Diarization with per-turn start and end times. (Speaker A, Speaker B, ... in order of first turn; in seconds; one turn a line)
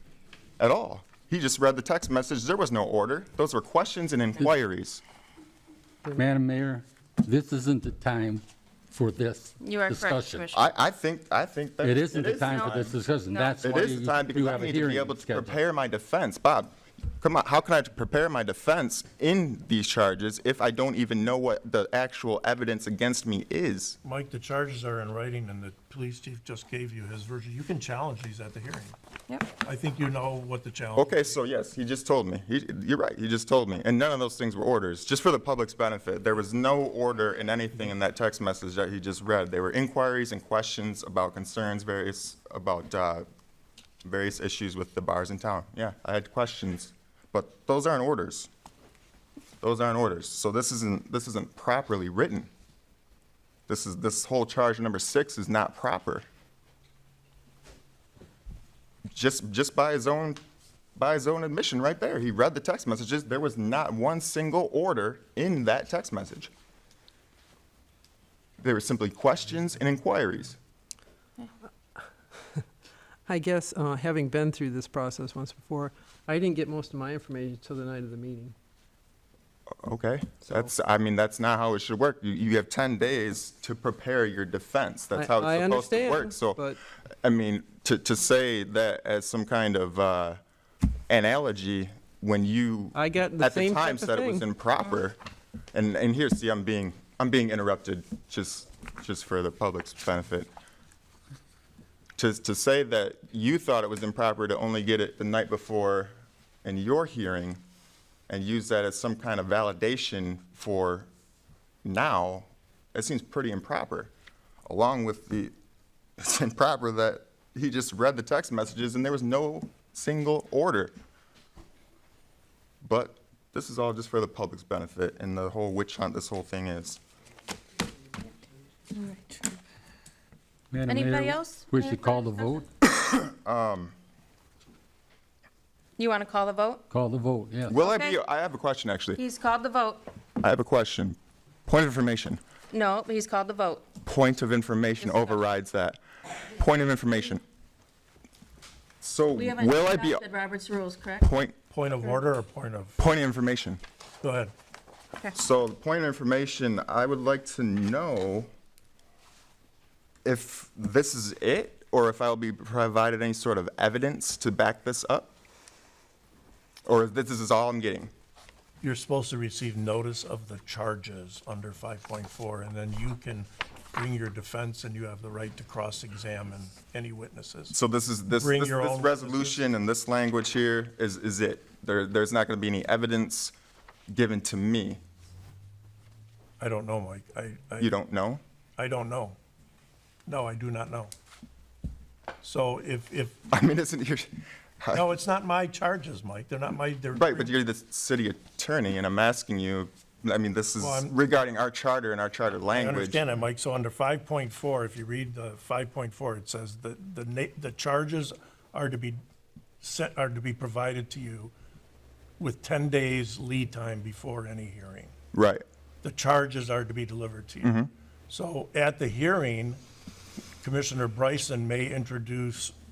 Speaker A: 0.6-5.0
Speaker B: 6.2-10.5
Speaker C: 9.6-10.7
Speaker A: 10.5-13.0
Speaker B: 11.8-15.6
Speaker C: 12.3-13.6
Speaker A: 13.6-24.0
Speaker D: 24.0-28.9
Speaker D: 29.6-31.4
Speaker A: 31.0-43.3
Speaker A: 44.0-48.5
Speaker A: 49.6-52.5
Speaker A: 53.7-56.2
Speaker A: 59.1-60.4
Speaker A: 61.0-66.5
Speaker A: 68.6-70.6
Speaker E: 73.3-78.5
Speaker A: 79.8-86.6
Speaker E: 85.1-86.8
Speaker A: 87.2-90.4
Speaker A: 91.1-95.2
Speaker E: 93.0-94.5
Speaker A: 95.7-100.5
Speaker A: 102.2-106.1
Speaker A: 106.6-107.6
Speaker A: 108.3-111.1
Speaker A: 111.8-114.1
Speaker A: 114.7-115.5
Speaker A: 116.2-120.9
Speaker A: 122.8-127.0
Speaker C: 128.9-129.6
Speaker B: 130.7-132.7
Speaker C: 130.9-132.6
Speaker A: 133.0-133.9
Speaker C: 136.0-136.9
Speaker B: 136.9-137.8
Speaker A: 137.7-139.2
Speaker C: 137.7-138.2
Speaker C: 139.2-140.1
Speaker A: 140.4-142.4
Speaker C: 142.7-143.9
Speaker A: 144.0-147.4
Speaker C: 145.0-145.5
Speaker A: 149.0-150.2
Speaker C: 149.3-151.3
Speaker A: 151.2-151.6
Speaker D: 151.7-153.0
Speaker A: 153.0-153.8
Speaker D: 154.2-154.5
Speaker A: 155.3-158.5
Speaker A: 160.2-165.3
Speaker A: 166.9-168.1
Speaker D: 168.8-177.8
Speaker A: 177.7-183.6
Speaker D: 178.3-179.6
Speaker A: 184.1-185.0
Speaker D: 186.6-187.9
Speaker A: 187.8-188.4
Speaker D: 188.8-189.4
Speaker D: 190.3-191.1
Speaker D: 192.4-193.4
Speaker A: 193.5-195.1
Speaker D: 194.9-197.5
Speaker A: 197.2-203.2
Speaker D: 200.8-201.2
Speaker D: 202.7-209.2
Speaker D: 209.8-211.5
Speaker D: 212.4-215.1
Speaker A: 215.3-215.6
Speaker D: 216.0-217.8
Speaker A: 217.6-217.9
Speaker D: 218.3-219.8
Speaker D: 220.6-222.8